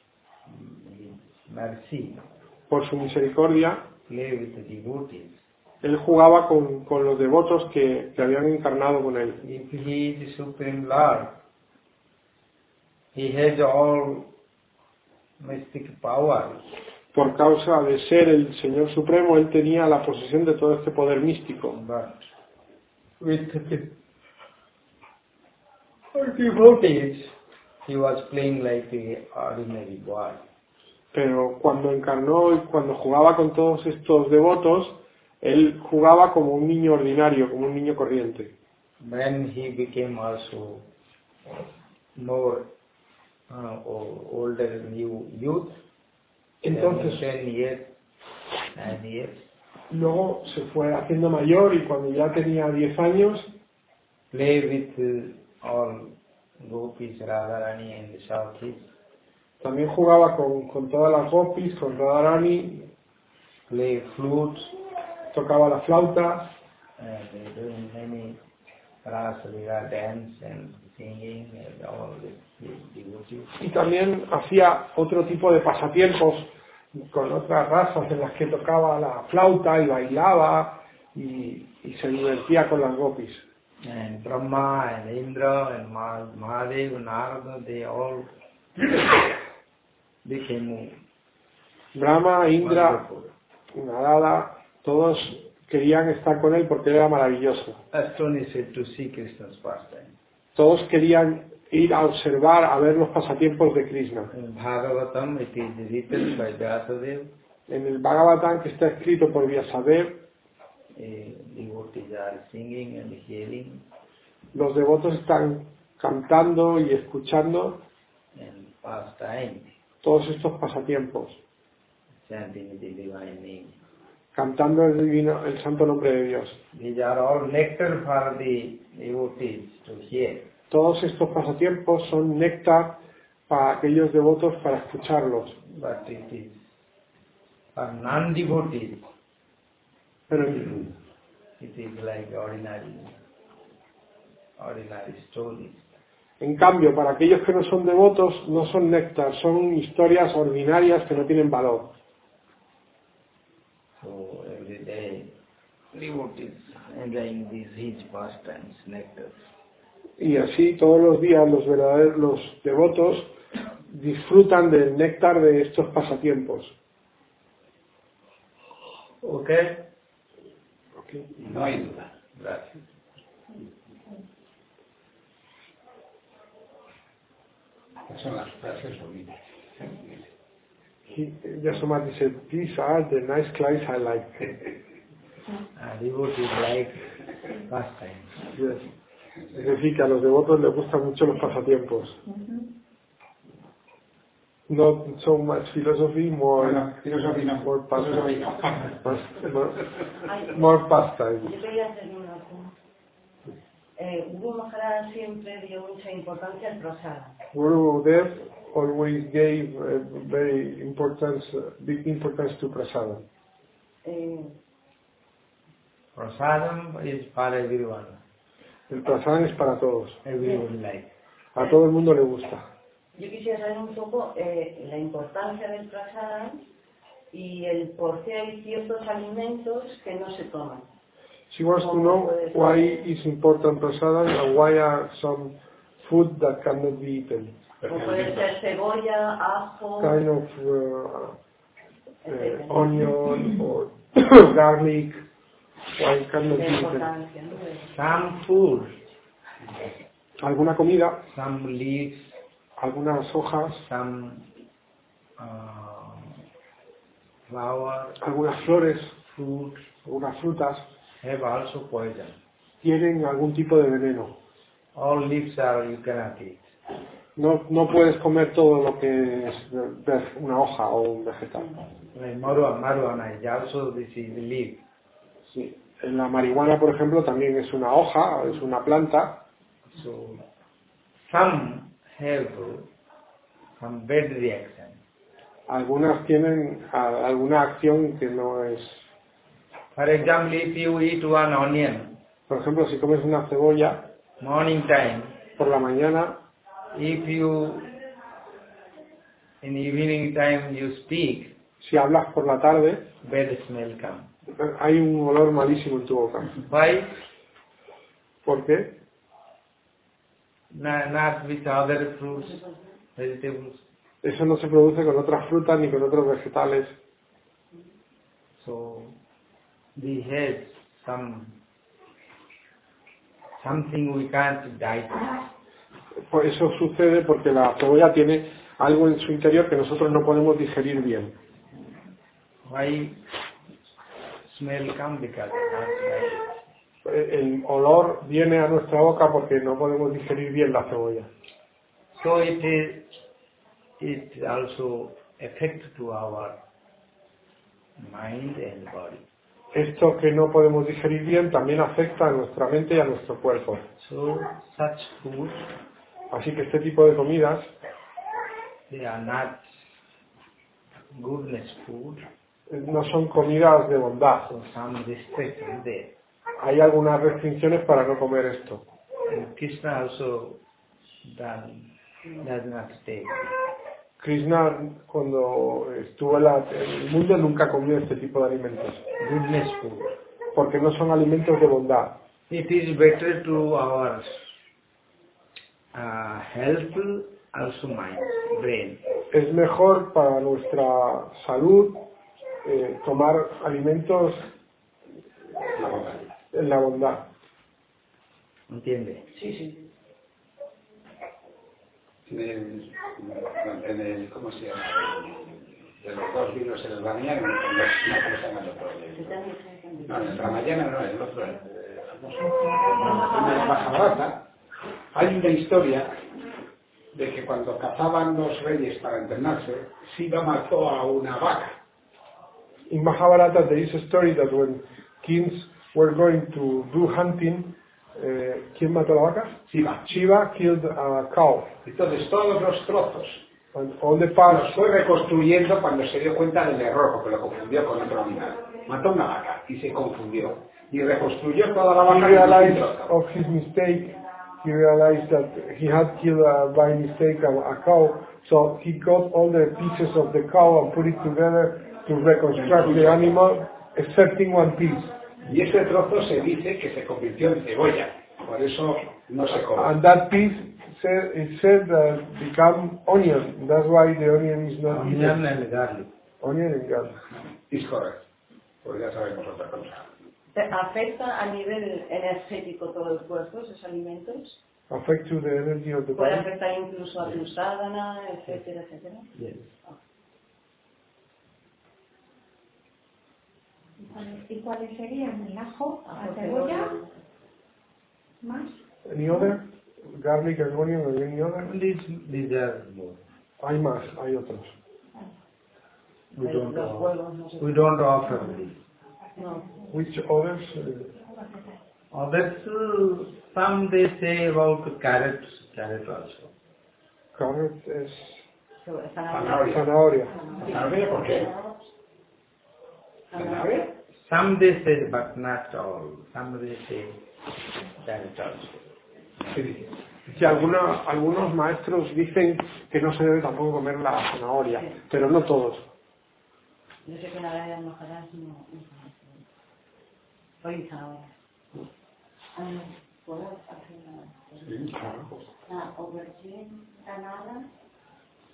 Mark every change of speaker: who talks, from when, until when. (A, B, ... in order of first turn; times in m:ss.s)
0:00.4-0:02.2 A
0:02.7-0:03.8 B
0:04.1-0:05.4 A
0:05.8-0:09.4 B
0:09.4-0:11.4 A
0:13.1-0:14.3 A
0:15.4-0:16.6 A
0:17.1-0:21.8 B
0:21.7-0:22.3 A
0:23.2-0:24.0 A
0:26.1-0:30.4 A
0:31.1-0:38.5 B
0:39.0-0:40.9 A
0:42.1-0:42.7 A
0:43.5-0:45.8 A
0:46.6-0:47.2 B
0:46.7-0:47.9 A
0:48.7-0:49.5 A
0:49.9-0:53.5 B
0:54.3-0:58.9 A
0:59.6-1:02.9 B
1:03.7-1:04.8 A
1:05.3-1:06.5 B
1:07.0-1:08.4 A
1:09.0-1:13.5 A
1:13.6-1:23.4 B
1:23.8-1:28.3 A
1:30.2-1:31.0 A
1:31.9-1:33.0 B
1:32.6-1:33.3 A
1:33.7-1:37.8 B
1:37.9-1:40.2 A
1:40.5-1:44.3 B
1:44.3-1:47.3 A
1:47.7-1:50.2 B
1:50.9-1:53.8 A
1:54.5-1:57.8 B
1:58.3-1:59.7 A
2:00.0-2:01.4 B
2:02.2-2:03.8 A
2:04.3-2:06.6 B
2:06.7-2:10.5 A
2:10.7-2:15.6 B
2:15.7-2:16.7 A
2:17.7-2:19.0 A
2:20.3-2:20.9 B
2:21.6-2:23.2 A
2:24.6-2:25.9 A
2:26.4-2:31.9 B
2:34.0-2:35.4 A
2:35.9-2:39.4 A
2:40.2-2:43.3 B
2:43.9-2:46.7 B
2:49.2-2:49.8 A
2:51.0-2:51.3 B
2:51.4-2:52.1 C
2:52.3-2:52.8 A
2:58.1-3:00.2 C
3:01.1-3:04.6 B
3:05.8-3:07.1 A
3:07.7-3:08.5 A
3:08.5-3:08.8 B
3:09.5-3:12.2 B
3:12.3-3:12.6 D
3:14.7-3:16.9 B
3:16.6-3:19.1 C
3:17.6-3:19.8 B
3:20.2-3:20.6 E
3:20.5-3:21.6 B
3:21.4-3:22.7 E
3:24.0-3:27.4 E
3:27.5-3:33.2 B
3:34.0-3:34.6 E
3:36.1-3:38.2 A
3:38.9-3:40.2 B
3:40.2-3:41.1 A
3:41.5-3:42.6 B
3:43.2-3:46.6 E
3:47.3-3:50.9 E
3:51.5-3:57.6 B
3:51.8-3:53.1 E
3:57.8-3:58.6 C
3:57.9-4:00.2 E
4:00.0-4:01.4 B
4:02.2-4:03.0 E
4:02.3-4:05.2 B
4:06.0-4:07.1 B
4:06.5-4:07.9 E
4:07.9-4:09.0 A
4:10.4-4:11.2 B
4:11.3-4:12.4 A
4:12.8-4:13.8 B
4:13.8-4:14.5 A
4:15.4-4:16.4 A
4:17.5-4:18.2 A
4:18.2-4:19.1 B
4:19.3-4:19.9 A
4:20.0-4:20.8 B
4:21.2-4:22.4 A
4:22.8-4:24.4 B
4:24.9-4:26.7 A
4:27.4-4:31.7 B
4:32.1-4:34.8 A
4:35.4-4:39.4 B
4:39.9-4:40.4 A
4:41.2-4:42.9 A
4:43.8-4:45.0 A
4:45.7-4:49.0 B
4:49.9-4:52.2 A
4:52.5-4:54.1 B
4:54.4-4:55.4 A
4:55.6-4:56.4 B
4:56.9-4:57.9 A
4:59.6-5:01.5 A
5:01.8-5:03.1 B
5:03.2-5:04.3 A
5:04.6-5:06.6 B
5:06.7-5:07.1 A
5:08.4-5:09.0 B
5:10.7-5:12.6 A
5:13.2-5:13.8 A
5:14.2-5:17.0 B
5:18.6-5:19.2 A
5:20.0-5:21.6 A
5:23.6-5:25.4 A
5:26.3-5:31.4 B
5:32.6-5:33.2 A
5:34.4-5:36.5 A
5:37.0-5:41.3 B
5:42.1-5:43.1 A
5:44.0-5:46.6 A
5:48.0-5:49.2 A
5:49.7-5:53.8 B
5:54.0-5:55.7 A
5:56.3-5:57.7 B
5:58.9-5:59.6 A
6:01.1-6:02.2 A
6:02.7-6:04.5 B
6:04.5-6:06.1 A
6:06.6-6:08.8 B
6:09.3-6:10.6 A
6:11.2-6:11.9 A
6:12.4-6:13.5 A
6:14.2-6:19.0 B
6:19.2-6:20.1 A
6:20.5-6:22.2 B
6:22.5-6:24.5 A
6:25.9-6:29.0 A
6:29.3-6:32.0 B
6:32.6-6:34.5 B
6:35.8-6:36.2 C
6:36.5-6:37.2 B
6:38.7-6:39.3 A
6:39.3-6:39.8 E
6:42.2-6:49.4 C
6:49.1-6:50.6 E
6:50.0-6:54.5 C
6:55.1-6:56.1 C
6:57.1-7:01.8 C
7:02.9-7:11.7 B
7:09.7-7:10.0 C
7:11.8-7:13.4 C
7:13.7-7:14.8 B
7:14.5-7:23.1 C
7:22.0-7:35.2 B
7:32.5-7:33.3 C
7:35.4-7:39.9 C
7:39.7-7:45.4 B
7:44.9-7:46.1 A
7:46.4-7:47.2 B
7:47.7-7:48.2 C
7:48.8-7:50.1 C
7:50.5-7:54.6 E
7:54.9-7:56.5 B
7:56.1-7:59.3 E
7:59.4-7:59.7 A
8:04.0-8:07.0 D
8:06.1-8:07.1 E
8:08.4-8:08.8 D
8:09.0-8:11.7 B
8:11.6-8:13.2 A
8:13.6-8:14.7 B
8:16.3-8:18.8 A
8:16.4-8:17.9 E
8:19.4-8:19.7 E
8:19.4-8:19.8 D
8:19.9-8:21.1 B
8:22.1-8:26.5 A
8:27.4-8:28.4 B
8:28.8-8:31.8 E
8:29.3-8:29.8 C
8:29.7-8:30.3 B
8:30.6-8:31.5 C
8:33.3-8:33.9 E
8:33.3-8:33.9 C
8:34.2-8:37.2 A
8:38.0-8:38.9 A
8:39.5-8:39.8 C
8:40.3-8:45.9 B
8:47.0-8:49.4 E
8:50.6-8:51.3 E
8:52.6-8:54.8 E
8:54.6-8:55.0 C
8:54.9-8:55.3 B
8:55.6-8:57.7 E